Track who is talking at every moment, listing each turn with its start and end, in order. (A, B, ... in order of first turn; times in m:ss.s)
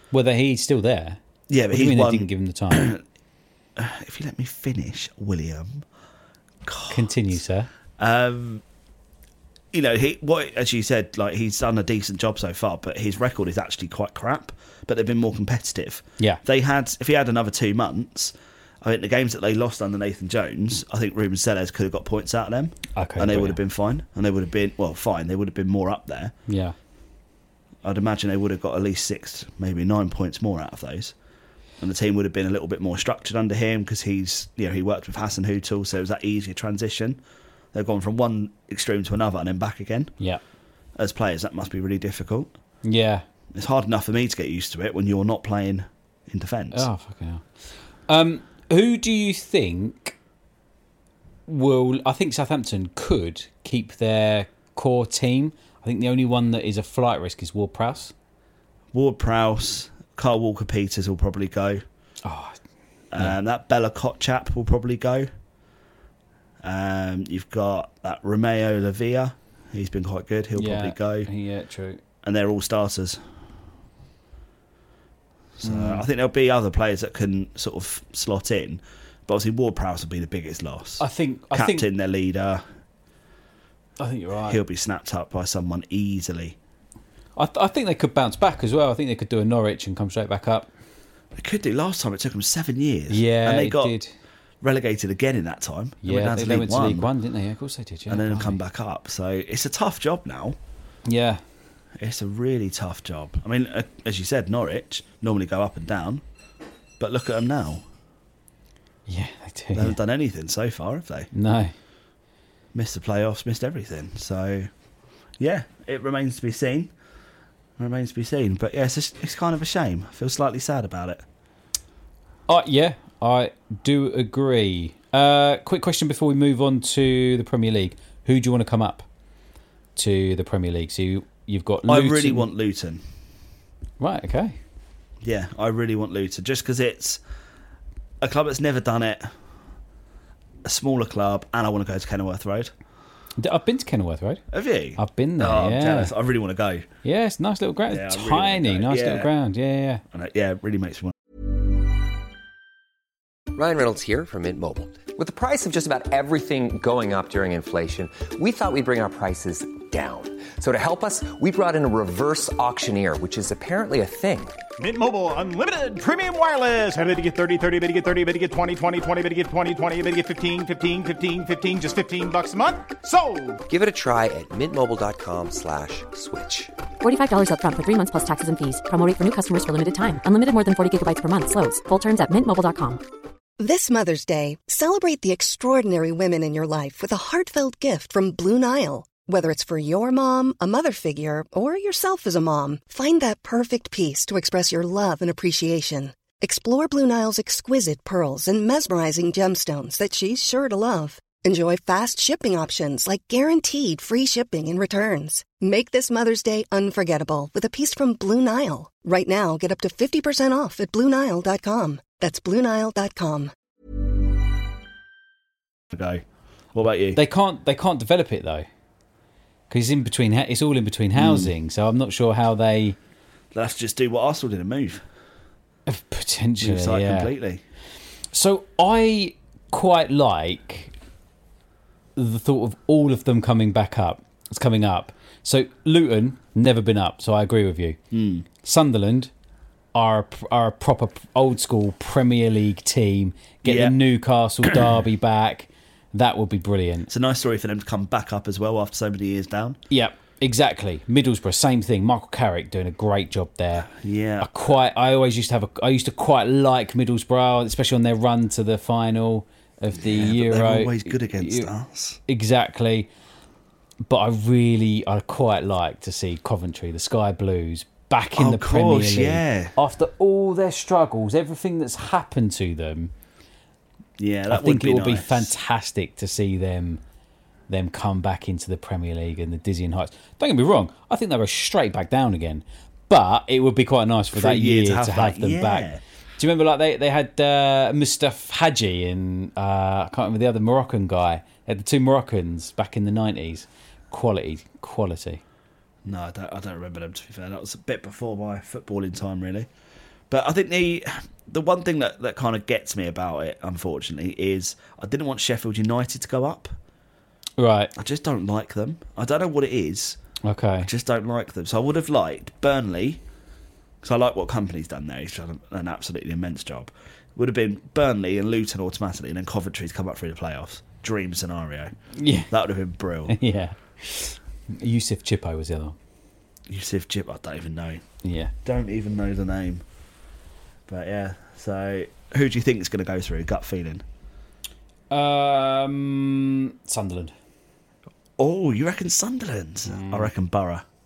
0:00.1-0:01.2 A
0:01.5-0:03.0 B
0:01.7-0:02.9 A
0:03.8-0:05.8 B
0:06.6-0:07.1 B
0:06.9-0:07.7 A
0:08.0-0:08.6 B
0:09.7-0:26.4 B
0:23.0-0:23.6 A
0:26.5-0:26.8 A
0:27.8-0:31.1 B
0:31.8-0:37.2 B
0:37.7-0:40.2 B
0:41.0-0:42.5 B
0:42.8-0:43.2 A
0:43.5-0:46.9 B
0:46.7-0:50.2 A
0:51.5-0:58.1 A
0:58.9-1:01.8 B
1:02.2-1:02.6 A
1:03.1-1:05.3 B
1:06.6-1:11.3 B
1:10.6-1:12.0 A
1:12.2-1:13.2 B
1:15.6-1:22.6 B
1:15.6-1:16.0 A
1:21.0-1:21.9 A
1:24.0-1:24.6 A
1:24.5-1:26.6 B
1:27.4-1:30.7 A
1:31.4-1:34.0 B
1:33.1-1:34.1 A
1:34.6-1:37.1 B
1:36.0-1:38.6 A
1:38.1-1:40.6 B
1:41.1-1:41.4 A
1:42.0-1:46.2 B
1:47.0-1:47.8 B
1:49.1-1:50.0 A
1:49.8-1:51.3 B
1:51.3-1:51.7 A
1:52.7-1:54.7 B
1:55.4-1:56.9 B
1:57.8-2:01.2 B
2:02.5-2:09.1 A
2:10.0-2:12.5 A
2:11.9-2:13.0 B
2:14.0-2:14.6 A
2:15.2-2:17.2 B
2:18.2-2:19.3 B
2:20.6-2:22.7 B
2:23.4-2:24.4 A
2:24.5-2:26.9 B
2:25.0-2:26.1 A
2:27.0-2:30.0 A
2:27.9-2:29.3 B
2:30.1-2:31.1 B
2:33.5-2:44.6 C
2:44.8-2:53.6 D
2:53.7-2:56.7 C
2:57.0-3:03.0 E
3:03.6-3:33.5 F
3:35.9-3:36.2 B
3:36.8-3:37.2 B
3:37.2-3:38.7 A
3:39.7-3:43.0 A
3:41.2-3:41.5 B
3:43.5-3:45.0 B
3:45.9-3:47.3 A
3:46.6-3:47.6 B
3:48.3-3:50.9 A
3:52.2-3:58.0 A
3:58.1-3:58.5 B
3:58.6-3:59.3 A
4:00.0-4:07.1 A
4:03.6-4:04.0 B
4:07.1-4:09.8 B
4:09.9-4:13.9 A
4:13.9-4:14.5 B
4:14.4-4:21.7 A
4:20.0-4:22.2 B
4:22.3-4:23.1 A
4:24.0-4:33.1 A
4:28.4-4:29.7 B
4:34.2-4:35.5 B
4:34.5-4:37.0 A
4:37.7-4:45.9 A
4:44.3-4:46.0 B
4:46.4-4:55.4 A
4:56.0-4:59.7 B
5:00.3-5:06.7 B
5:07.6-5:07.9 A
5:08.0-5:10.2 B
5:10.4-5:10.9 A
5:10.8-5:13.2 B
5:14.0-5:21.9 B
5:22.2-5:22.5 A
5:22.5-5:23.4 B
5:23.3-5:26.0 A
5:26.7-5:28.0 B
5:28.2-5:28.5 A
5:28.6-5:29.8 B
5:30.9-5:34.0 B
5:35.1-5:37.3 A
5:38.4-5:40.8 B
5:39.9-5:40.3 A